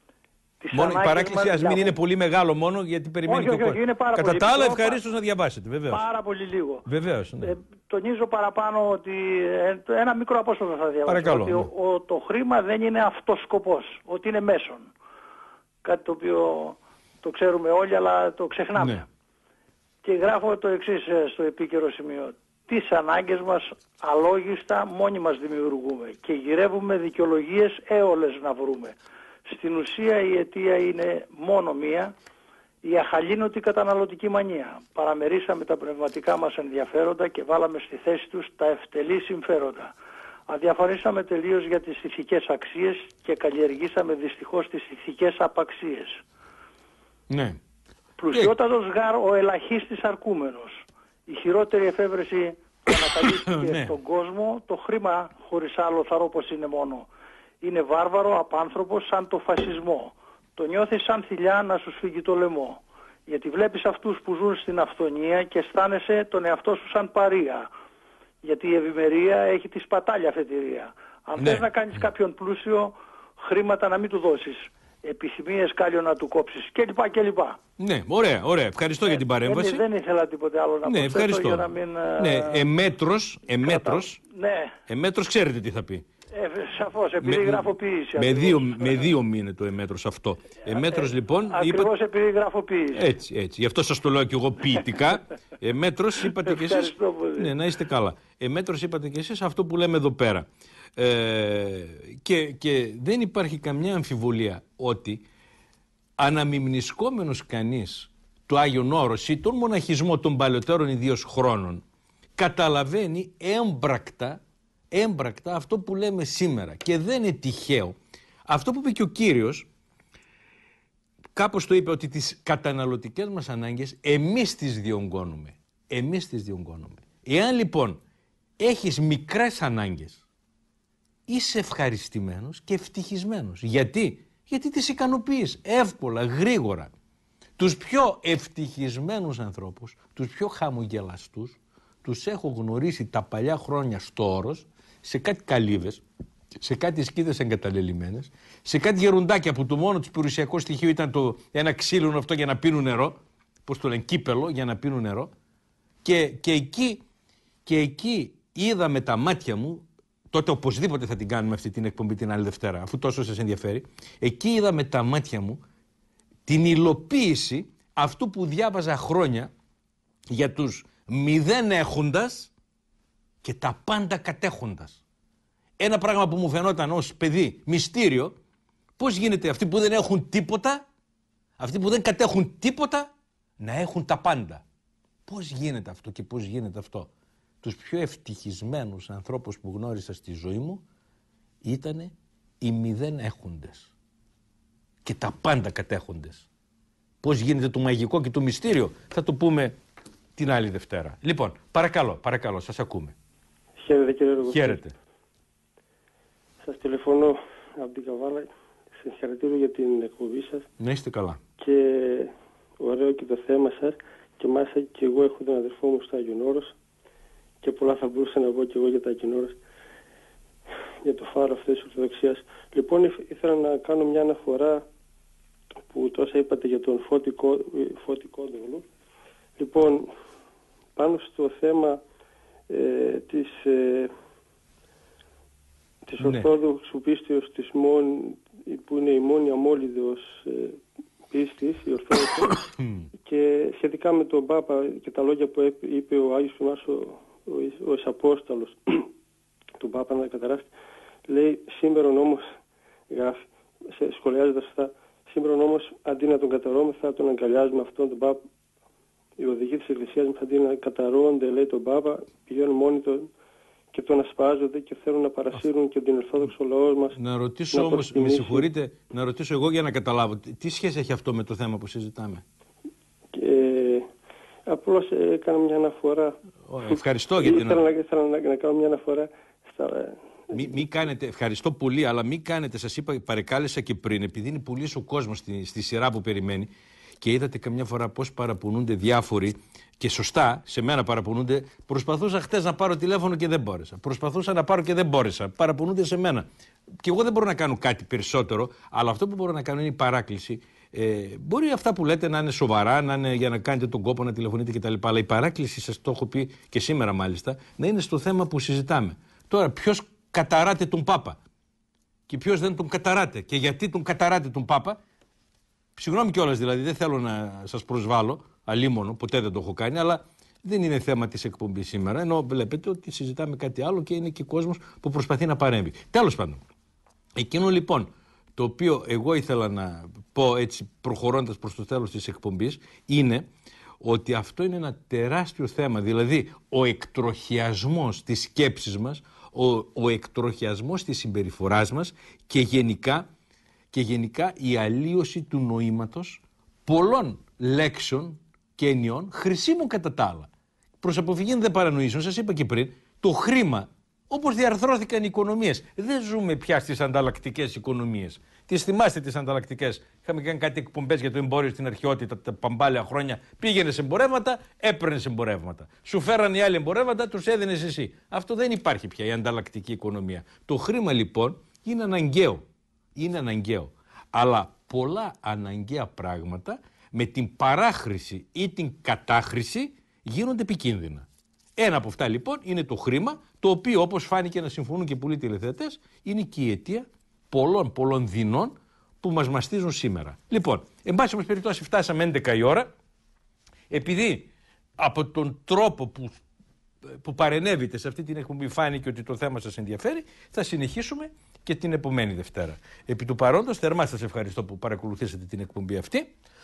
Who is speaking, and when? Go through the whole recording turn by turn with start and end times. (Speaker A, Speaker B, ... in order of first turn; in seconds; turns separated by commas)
Speaker A: 0.6-2.0, Speaker B: 0.7-6.0, Speaker A: 3.2-5.0, Speaker A: 5.9-6.8, Speaker B: 6.8-7.5, Speaker A: 7.4-14.9, Speaker B: 11.1-11.7, Speaker A: 15.8-19.1, Speaker B: 18.8-19.0, Speaker A: 20.0-32.1, Speaker A: 32.8-39.9, Speaker A: 40.5-46.2, Speaker B: 47.3-47.6, Speaker A: 48.2-57.1, Speaker B: 53.2-53.9, Speaker A: 57.6-67.7, Speaker A: 68.4-77.6, Speaker B: 71.4-71.7, Speaker B: 77.8-79.8, Speaker A: 79.0-82.6, Speaker B: 80.8-84.2, Speaker A: 83.6-84.7, Speaker B: 84.9-86.0, Speaker A: 86.3-89.1, Speaker B: 87.2-91.9, Speaker A: 90.7-93.0, Speaker B: 92.9-105.2, Speaker A: 96.3-97.5, Speaker B: 106.2-111.8, Speaker B: 112.4-114.4, Speaker B: 114.9-119.7, Speaker B: 121.3-128.0, Speaker B: 128.6-130.2, Speaker B: 131.3-136.9, Speaker B: 137.6-146.0, Speaker B: 146.6-155.3, Speaker B: 156.0-157.0, Speaker B: 157.7-165.6, Speaker B: 166.5-169.5, Speaker B: 170.3-172.5, Speaker B: 173.4-175.0, Speaker B: 175.8-178.3, Speaker B: 179.0-180.8, Speaker B: 181.6-184.6, Speaker B: 185.3-187.1, Speaker B: 187.6-190.8, Speaker B: 191.6-193.9, Speaker B: 195.0-196.4, Speaker B: 197.2-199.8, Speaker B: 200.3-203.1, Speaker C: 203.8-204.8, Speaker B: 204.4-204.9, Speaker C: 206.6-210.7, Speaker B: 210.8-211.4, Speaker C: 211.6-216.7, Speaker C: 217.6-219.6, Speaker C: 221.0-224.8, Speaker C: 225.9-228.8, Speaker C: 229.6-230.1, Speaker C: 230.9-232.0, Speaker C: 232.7-234.1, Speaker C: 236.1-242.6, Speaker B: 236.2-236.5, Speaker B: 242.8-243.1, Speaker C: 243.2-249.1, Speaker C: 249.8-250.7, Speaker C: 251.3-252.4, Speaker C: 253.1-253.4, Speaker C: 253.9-258.4, Speaker C: 259.4-263.3, Speaker C: 263.9-267.2, Speaker B: 267.1-272.4, Speaker C: 267.7-268.7, Speaker C: 273.3-274.1, Speaker C: 274.7-280.8, Speaker B: 276.7-277.8, Speaker B: 280.5-286.7, Speaker B: 287.2-296.5, Speaker B: 297.0-311.4, Speaker B: 312.3-315.0, Speaker B: 315.9-326.6, Speaker B: 327.4-333.5, Speaker B: 334.0-343.3, Speaker B: 343.9-350.5, Speaker B: 351.0-372.6, Speaker B: 373.1-392.9, Speaker B: 393.9-396.4, Speaker B: 397.1-406.3